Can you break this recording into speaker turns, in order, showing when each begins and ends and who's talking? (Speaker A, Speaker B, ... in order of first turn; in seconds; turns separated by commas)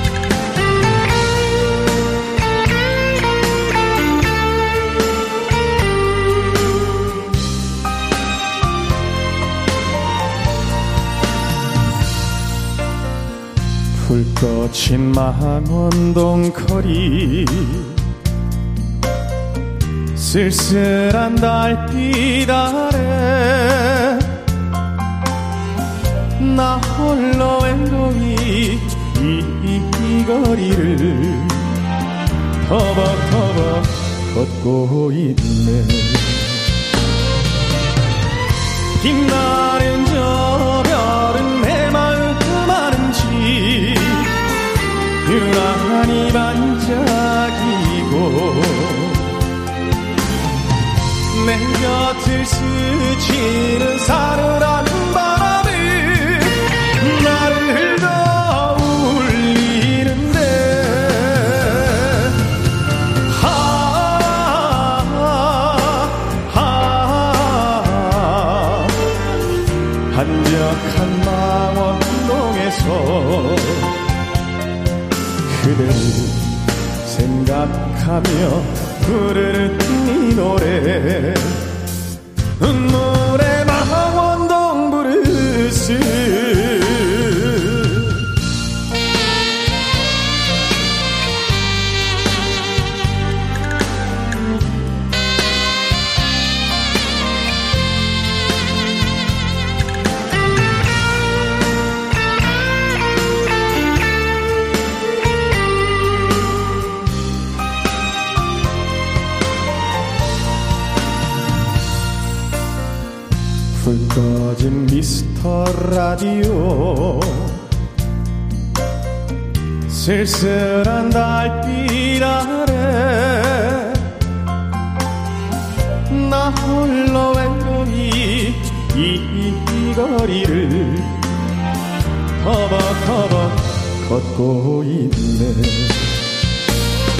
Speaker A: 13.9-17.9, Speaker A: 20.1-24.3, Speaker A: 26.4-31.7, Speaker A: 32.6-36.6, Speaker A: 39.0-44.3, Speaker A: 45.2-49.3, Speaker A: 51.3-62.4, Speaker A: 63.3-69.0, Speaker A: 70.1-73.9, Speaker A: 75.4-81.6, Speaker A: 82.6-88.1, Speaker A: 113.7-117.6, Speaker A: 119.9-124.0, Speaker A: 126.1-131.2, Speaker A: 132.4-136.1